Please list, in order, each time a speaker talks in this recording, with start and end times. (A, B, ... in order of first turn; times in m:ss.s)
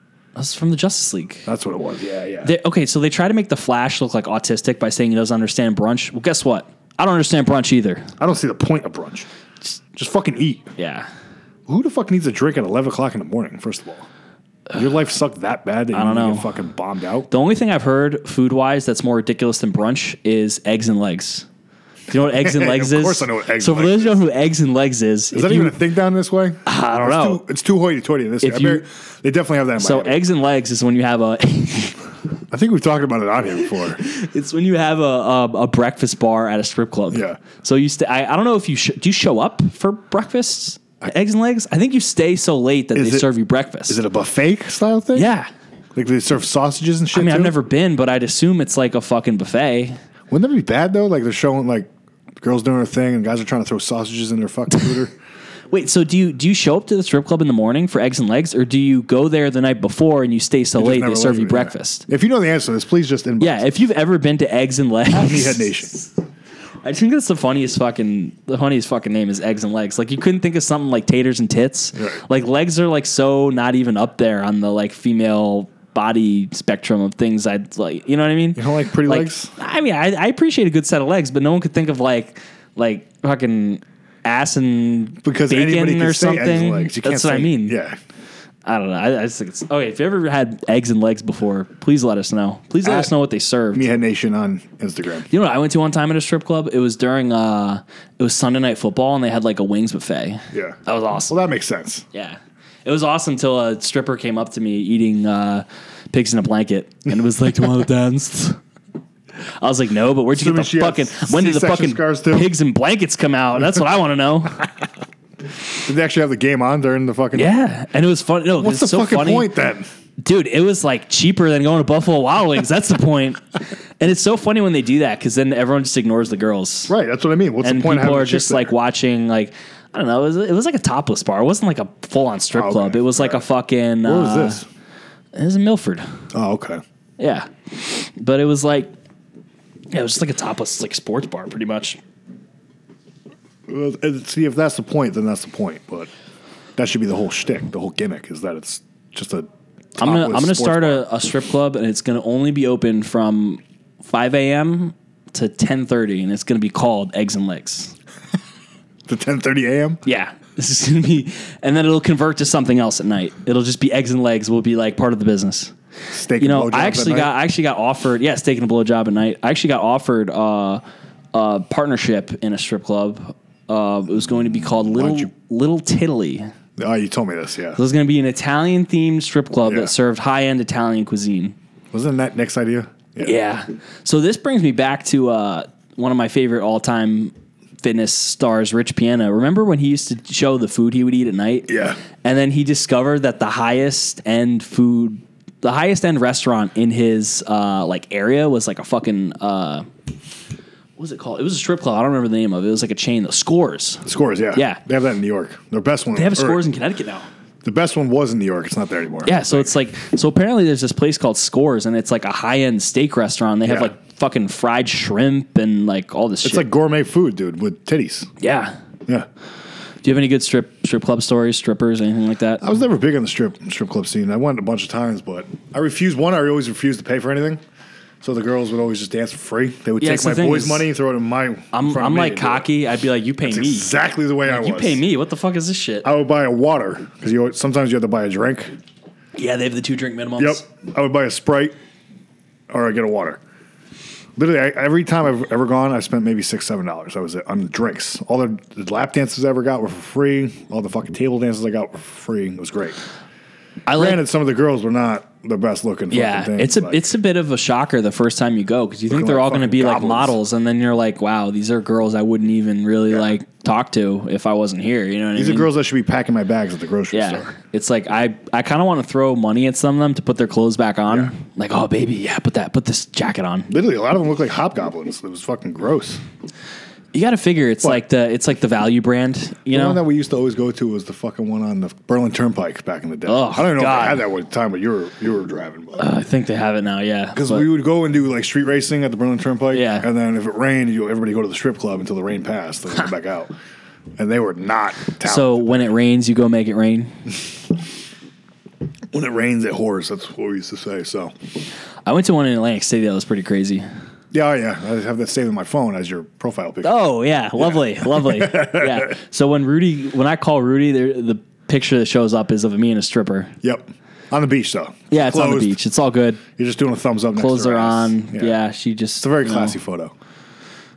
0:00.4-0:01.5 A
0:01.5-0:02.5 B
0:02.4-0:08.1 A
0:08.2-0:10.7 B
0:10.8-0:11.1 A
0:11.7-0:14.1 B
0:14.8-0:17.3 B
0:15.9-0:16.5 A
0:17.3-0:21.5 A
0:22.1-0:25.8 A
0:22.3-0:24.2 B
0:25.3-0:30.2 B
0:26.6-0:27.4 A
0:28.4-0:28.8 A
0:29.8-0:32.0 A
0:32.5-0:34.0 B
0:34.0-0:44.0 A
0:37.1-0:37.4 B
0:43.0-0:43.3 B
0:43.9-0:45.3 B
0:45.2-0:45.5 A
0:46.0-0:47.6 B
0:47.1-0:50.0 A
0:50.3-0:51.9 B
0:52.4-0:55.1 B
0:55.7-1:02.1 A
1:00.8-1:03.7 B
1:03.4-1:06.0 A
1:05.1-1:06.0 B
1:06.8-1:27.8 A
1:12.0-1:12.2 B
1:18.6-1:19.5 B
1:25.2-1:28.0 B
1:28.6-1:33.8 A
1:32.8-1:33.1 B
1:33.7-1:35.3 B
1:35.3-1:41.4 A
1:40.5-1:40.8 B
1:41.3-1:42.1 B
1:42.1-1:48.6 A
1:49.6-1:54.7 A
1:50.3-1:52.5 B
1:55.7-1:57.6 B
1:57.3-1:59.5 A
1:58.6-1:59.9 B
2:00.2-2:06.9 A
2:06.9-2:08.7 B
2:07.6-2:14.6 A
2:12.5-2:13.5 B
2:14.0-2:14.7 B
2:15.3-2:16.1 A
2:16.3-2:16.8 B
2:17.2-2:18.9 A
2:19.9-2:22.0 A
2:23.7-2:26.1 B
2:26.8-2:31.0 B
2:30.0-2:38.0 A
2:39.1-2:40.0 B
2:40.0-2:45.8 A
2:46.1-2:47.3 B
2:46.4-2:50.8 A
2:51.3-2:56.5 A
2:54.9-2:55.3 B
2:56.8-2:57.8 B
2:57.8-3:01.6 A
2:59.6-2:59.9 B
3:01.9-3:03.4 B
3:03.2-3:19.9 A
3:11.7-3:12.0 B
3:21.0-3:24.0 A
3:24.1-3:26.6 B
3:24.6-3:24.8 A
3:26.2-3:27.3 A
3:27.6-3:29.7 B
3:29.2-3:36.7 A
3:33.7-3:33.9 B
3:36.4-3:38.3 B
3:38.4-3:38.7 A
3:40.0-3:42.6 A
3:42.6-3:47.6 B
3:48.2-3:52.7 B
3:50.0-3:50.8 A
3:51.7-3:53.9 A
3:53.4-3:55.0 B
3:54.5-3:56.1 A
3:56.0-3:58.7 B
3:59.4-4:00.6 A
4:00.4-4:01.8 B
4:02.7-4:03.4 B
4:04.4-4:13.0 B
4:13.9-4:14.2 A
4:13.9-4:17.0 B
4:16.1-4:25.7 A
4:19.1-4:20.4 B
4:25.4-4:27.5 B
4:27.1-4:33.7 A
4:33.7-4:36.2 B
4:37.1-4:40.0 A
4:39.7-4:46.1 B
4:43.3-4:44.2 A
4:46.0-4:47.7 A
4:47.3-4:53.5 B
4:49.7-4:50.1 A
4:54.2-4:55.9 B
4:55.2-4:57.2 A
4:59.1-5:01.3 B
5:02.1-5:03.8 A
5:04.3-5:09.1 B
5:06.8-5:13.5 A
5:13.6-5:15.8 B
5:15.1-5:16.4 A
5:16.6-5:18.6 B
5:17.4-5:19.8 A
5:19.2-5:20.1 B